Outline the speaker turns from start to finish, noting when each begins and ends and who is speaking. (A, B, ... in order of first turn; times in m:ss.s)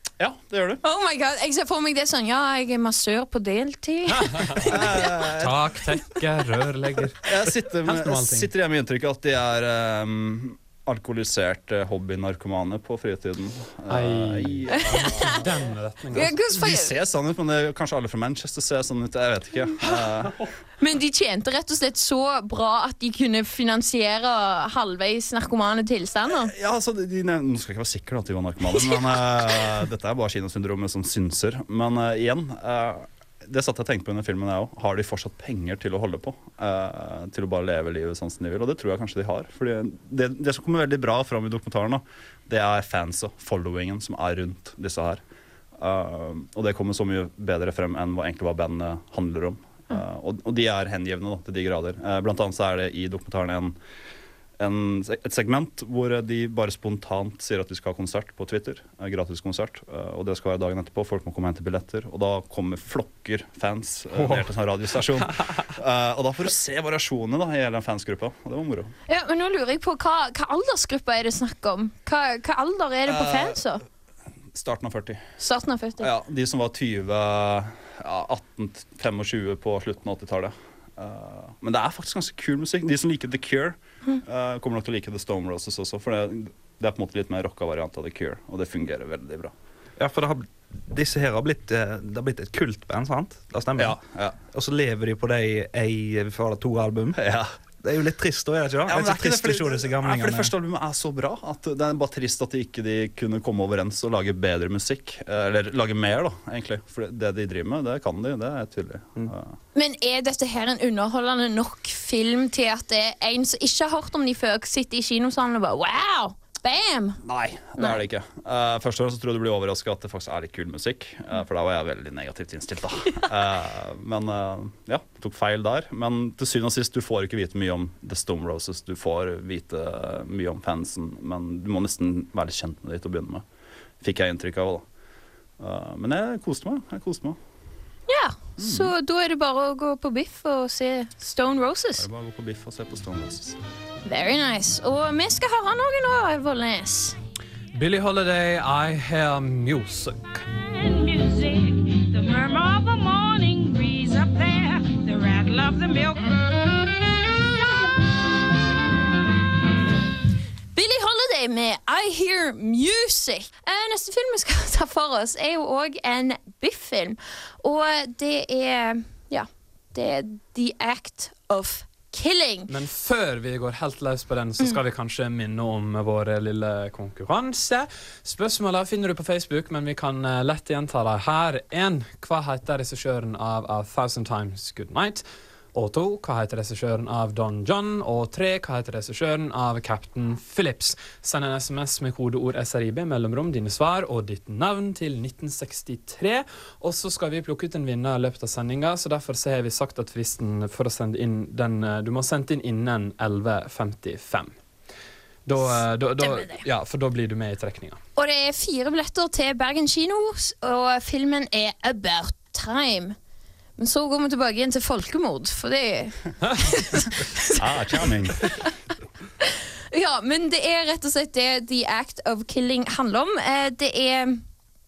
0:00.2-0:00.8 A
0:00.8-0:05.0 B
0:04.2-0:04.7 C
0:04.6-0:05.6 A
0:05.4-0:07.3 C
0:07.2-0:15.5 A
0:07.8-0:08.5 C
0:13.9-0:16.3 C
0:14.7-0:15.2 B
0:16.1-0:16.9 B
0:16.5-0:20.4 A
0:20.8-0:26.5 B
0:26.4-0:45.2 A
0:45.8-0:53.8 A
0:54.6-1:08.9 A
1:04.1-1:05.6 C
1:09.1-1:13.8 B
1:13.1-1:13.6 A
1:14.5-1:15.3 A
1:15.4-1:16.1 B
1:16.0-1:29.5 A
1:30.0-1:37.2 D
1:33.8-1:34.4 A
1:37.2-1:37.5 A
1:37.8-1:40.5 D
1:38.9-1:49.6 A
1:49.7-1:57.2 B
1:57.2-2:13.4 A
1:57.8-1:58.0 B
2:14.0-2:14.8 A
2:15.6-2:17.4 A
2:18.1-2:22.0 B
2:18.6-2:18.9 A
2:22.0-2:23.6 A
2:24.0-2:27.2 B
2:27.7-2:30.4 C
2:30.7-2:36.6 E
2:40.7-2:52.7 B
2:52.7-3:24.5 C
3:25.4-3:28.0 C
3:26.2-3:26.6 B
3:28.2-3:33.2 B
3:33.8-3:38.0 B
3:37.5-3:38.6 A
3:39.4-3:44.4 B